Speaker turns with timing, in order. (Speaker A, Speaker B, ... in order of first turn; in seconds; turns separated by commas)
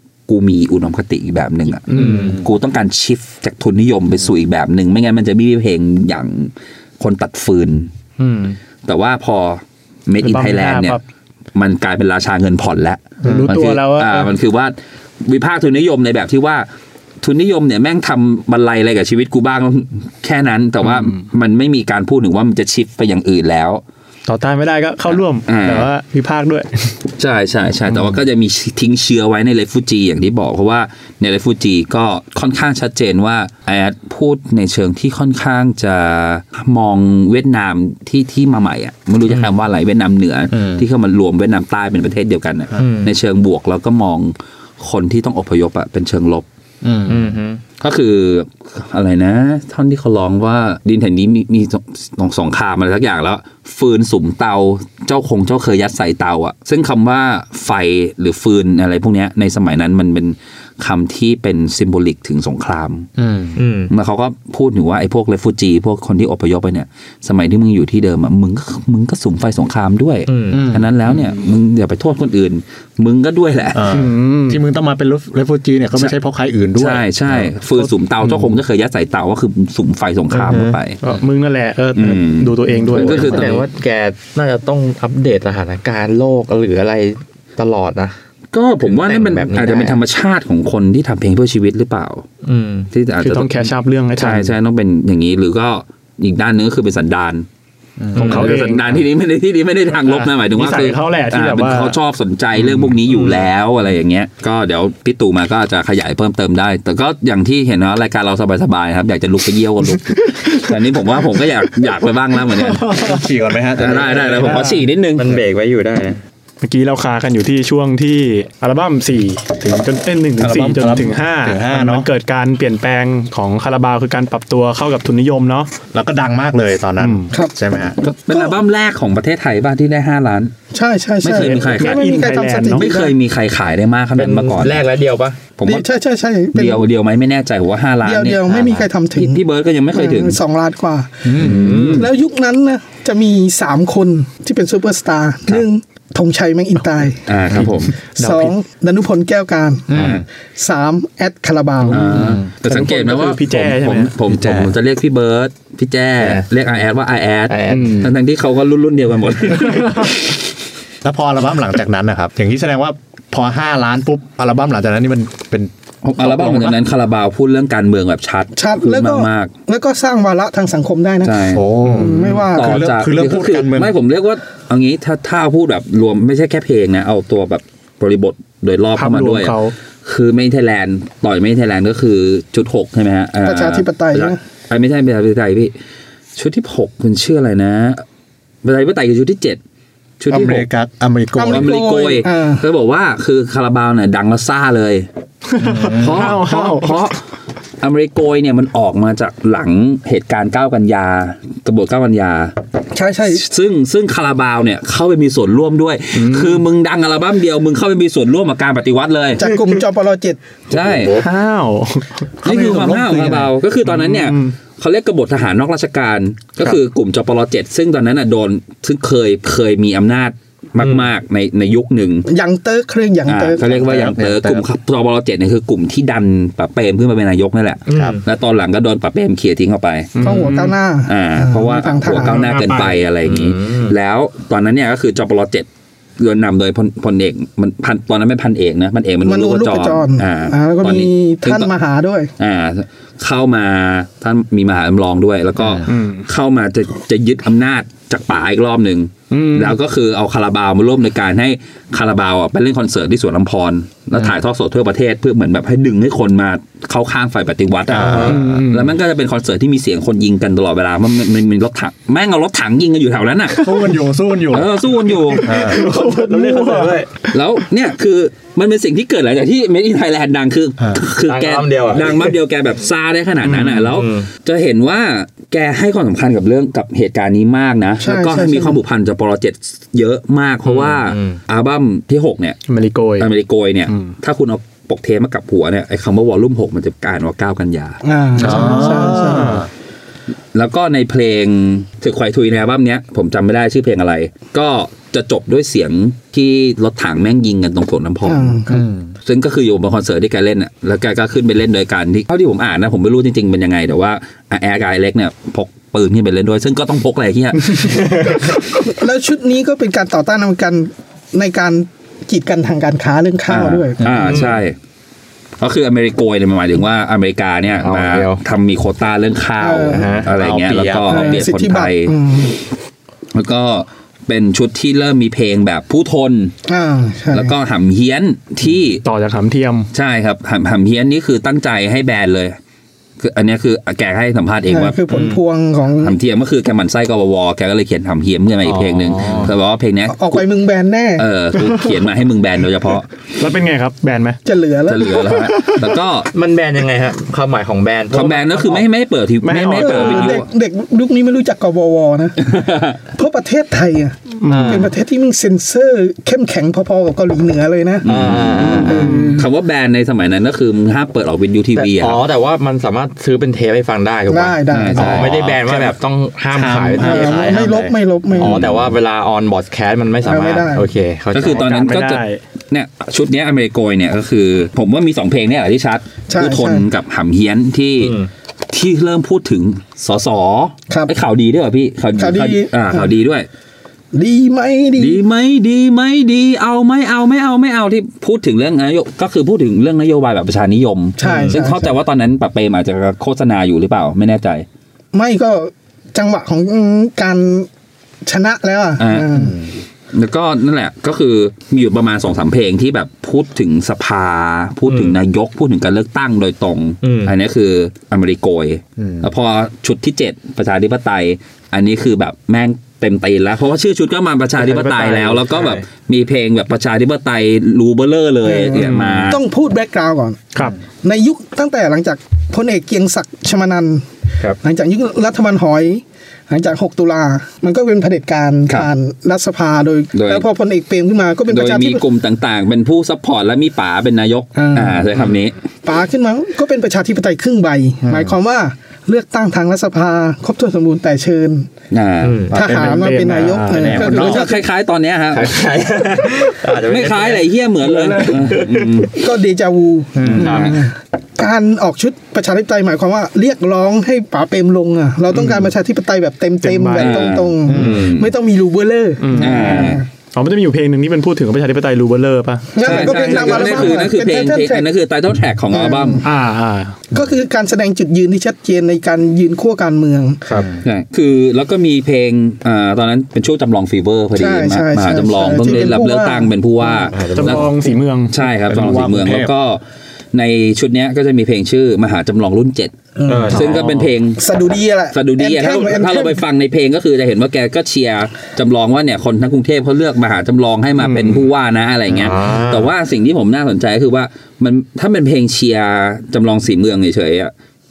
Speaker A: 0.3-7.9, Speaker B: 1.9-2.4, Speaker C: 1.9-2.4, Speaker C: 8.2-8.6, Speaker A: 8.8-11.0, Speaker B: 10.2-11.0, Speaker A: 11.5-16.6, Speaker D: 13.2-13.5, Speaker B: 13.2-14.3, Speaker A: 17.2-23.8, Speaker B: 20.9-21.1, Speaker B: 24.3-27.0, Speaker A: 25.1-25.9, Speaker A: 27.1-46.4, Speaker D: 40.5-40.8, Speaker C: 42.8-43.1, Speaker D: 46.8-47.4, Speaker C: 47.1-47.6, Speaker A: 47.8-63.1, Speaker D: 63.2-63.6, Speaker C: 63.5-63.9, Speaker A: 63.9-73.8, Speaker C: 70.3-70.7, Speaker D: 70.5-70.9, Speaker D: 73.7-77.5, Speaker B: 73.9-74.6, Speaker A: 76.8-81.0, Speaker B: 80.5-83.6, Speaker D: 80.5-80.8, Speaker A: 82.0-83.7, Speaker C: 82.7-88.2, Speaker A: 88.5-92.2, Speaker C: 88.8-90.0, Speaker C: 92.4-92.9, Speaker A: 92.9-97.5, Speaker B: 93.2-94.5, Speaker D: 98.0-98.6, Speaker B: 98.1-98.9, Speaker A: 98.2-113.1, Speaker C: 98.2-98.5, Speaker B: 100.0-102.0, Speaker B: 110.0-110.7, Speaker B: 112.5-113.2, Speaker D: 112.9-114.7, Speaker A: 113.8-115.3, Speaker C: 114.0-114.6, Speaker B: 114.5-114.7, Speaker C: 115.2-116.2, Speaker B: 116.6-125.7, Speaker D: 120.4-122.1, Speaker D: 125.9-128.0, Speaker B: 127.0-127.3, Speaker A: 128.0-130.5, Speaker E: 128.3-128.6, Speaker E: 130.7-133.1, Speaker A: 131.2-132.0, Speaker B: 131.3-132.9, Speaker A: 132.7-134.8, Speaker C: 134.2-135.4, Speaker A: 135.6-135.8, Speaker E: 135.6-136.8, Speaker A: 136.5-140.4, Speaker E: 138.0-139.4, Speaker E: 139.9-141.2, Speaker D: 141.2-141.9, Speaker A: 141.4-142.1, Speaker C: 141.4-142.1, Speaker E: 141.9-147.2, Speaker A: 147.2-148.0, Speaker D: 147.5-148.5, Speaker E: 148.1-149.9, Speaker D: 149.9-150.2, Speaker A: 149.9-150.2, Speaker E: 150.6-152.1, Speaker B: 151.9-154.1, Speaker A: 151.9-160.3, Speaker D: 152.1-152.5, Speaker D: 154.3-154.7, Speaker C: 156.2-156.4, Speaker C: 157.5-158.1, Speaker B: 157.7-158.1, Speaker B: 159.6-160.1, Speaker D: 161.0-166.8, Speaker A: 166.0-169.5, Speaker E: 168.6-172.8, Speaker A: 171.2-171.6, Speaker D: 171.5-173.9, Speaker A: 172.5-185.7, Speaker B: 178.9-179.7, Speaker E: 183.4-184.4, Speaker A: 186.3-188.0, Speaker A: 188.6-189.6, Speaker A: 190.2-190.7, Speaker D: 190.3-191.8, Speaker E: 191.3-192.6, Speaker A: 191.5-195.1, Speaker B: 195.5-197.2, Speaker D: 195.6-196.4, Speaker A: 195.9-197.2, Speaker A: 197.8-202.5, Speaker E: 202.9-203.4, Speaker A: 203.3-209.4, Speaker B: 206.1-206.6, Speaker E: 209.4-210.4, Speaker A: 210.7-211.2, Speaker C: 210.7-211.3, Speaker B: 211.2-212.3, Speaker D: 212.4-213.5, Speaker A: 212.4-222.3, Speaker B: 213.8-214.5, Speaker C: 220.8-221.1, Speaker E: 222.3-223.9, Speaker A: 223.2-230.1, Speaker D: 223.6-224.7, Speaker C: 227.9-228.2, Speaker D: 227.9-228.2, Speaker B: 230.2-230.8, Speaker E: 230.2-232.5, Speaker A: 231.1-235.7, Speaker B: 232.1-232.9, Speaker C: 233.2-233.9, Speaker A: 236.2-241.7, Speaker E: 239.2-242.3, Speaker A: 242.4-263.7, Speaker D: 245.6-245.8, Speaker B: 245.8-246.2, Speaker B: 249.3-249.8, Speaker D: 257.9-258.4, Speaker C: 257.9-258.4, Speaker B: 258.3-258.9, Speaker B: 263.5-263.9, Speaker D: 263.6-264.7, Speaker A: 264.5-265.5, Speaker B: 265.1-267.0, Speaker D: 265.4-265.9, Speaker C: 265.4-267.1, Speaker A: 267.3-282.6, Speaker C: 271.2-272.3, Speaker B: 273.4-273.9, Speaker C: 273.9-274.3, Speaker E: 278.0-278.8, Speaker C: 280.6-281.4, Speaker B: 282.7-283.3, Speaker A: 283.2-288.0, Speaker B: 283.9-284.1, Speaker E: 288.0-289.6, Speaker D: 288.4-289.7, Speaker B: 288.4-289.6, Speaker A: 290.5-298.6, Speaker E: 298.2-298.8, Speaker D: 298.7-299.1, Speaker A: 299.2-308.1, Speaker C: 307.8-308.4, Speaker E: 308.8-314.0, Speaker A: 313.5-314.8, Speaker D: 314.0-314.4, Speaker C: 314.1-314.6, Speaker A: 315.6-322.1, Speaker C: 317.8-318.4, Speaker E: 319.6-320.1, Speaker C: 319.9-320.3, Speaker D: 320.2-321.4, Speaker E: 321.1-322.6, Speaker A: 323.3-326.5, Speaker E: 326.7-327.5, Speaker A: 327.3-329.0, Speaker B: 329.0-329.9, Speaker A: 329.9-332.6, Speaker A: 333.2-335.0, Speaker E: 334.7-336.1, Speaker C: 335.1-335.4, Speaker A: 336.0-340.4, Speaker C: 338.6-339.5, Speaker E: 340.1-341.2, Speaker A: 341.2-343.1, Speaker B: 343.4-344.4, Speaker E: 344.4-345.4, Speaker A: 344.9-346.3, Speaker B: 345.3-345.9, Speaker C: 346.3-348.8, Speaker A: 348.1-350.4, Speaker B: 349.4-350.4, Speaker E: 349.7-358.1, Speaker A: 352.4-352.9, Speaker B: 354.4-354.9, Speaker C: 354.5-354.9, Speaker C: 358.0-359.1, Speaker A: 358.0-362.2, Speaker E: 358.8-359.5, Speaker B: 358.9-359.4, Speaker C: 361.8-367.6, Speaker E: 364.3-365.2, Speaker A: 364.7-365.5, Speaker D: 365.0-366.0, Speaker D: 366.5-368.9, Speaker E: 367.0-368.6, Speaker C: 368.4-371.7, Speaker E: 370.2-370.9, Speaker A: 371.3-378.1, Speaker B: 371.5-372.4, Speaker E: 376.3-376.8, Speaker C: 378.0-378.3, Speaker A: 378.7-383.5, Speaker E: 382.2-383.1, Speaker E: 384.1-385.2, Speaker A: 385.0-394.6, Speaker E: 391.2-391.9, Speaker C: 391.2-391.6, Speaker E: 395.1-397.7, Speaker E: 398.2-399.5, Speaker A: 399.0-399.3, Speaker D: 399.3-399.7, Speaker A: 400.1-419.4, Speaker C: 404.9-405.1, Speaker C: 407.0-407.3, Speaker D: 409.0-409.3, Speaker B: 414.6-415.3, Speaker C: 414.8-415.8, Speaker E: 418.4-420.4, Speaker B: 418.8-419.3, Speaker E: 421.0-424.1, Speaker E: 424.6-432.0, Speaker A: 430.1-430.4, Speaker A: 431.5-435.6, Speaker E: 434.5-435.1, Speaker E: 435.8-441.7, Speaker D: 438.0-438.3, Speaker A: 441.9-442.4, Speaker C: 442.2-442.6, Speaker D: 442.5-444.5, Speaker E: 442.5-444.6, Speaker B: 442.9-443.9, Speaker A: 444.0-445.5, Speaker C: 445.3-449.1, Speaker A: 446.7-449.1, Speaker E: 449.1-460.0, Speaker D: 450.1-450.6, Speaker A: 450.2-450.8, Speaker C: 450.4-450.8, Speaker B: 456.6-457.4, Speaker A: 457.0-458.3, Speaker D: 457.7-458.0, Speaker B: 459.2-464.0, Speaker A: 459.4-460.0, Speaker E: 462.7-464.8, Speaker A: 462.8-466.2, Speaker E: 465.7-466.2, Speaker B: 466.2-467.0, Speaker E: 467.1-470.4, Speaker D: 470.5-470.8, Speaker A: 470.8-477.7, Speaker E: 474.4-477.1, Speaker C: 477.1-477.8, Speaker B: 477.3-478.3, Speaker A: 478.3-479.8, Speaker D: 478.7-479.5, Speaker A: 480.3-482.9, Speaker E: 483.1-483.6, Speaker C: 483.3-483.8, Speaker A: 483.5-484.4, Speaker B: 483.5-484.1, Speaker E: 484.4-486.4, Speaker A: 485.1-497.5, Speaker B: 491.0-491.4, Speaker C: 492.1-492.9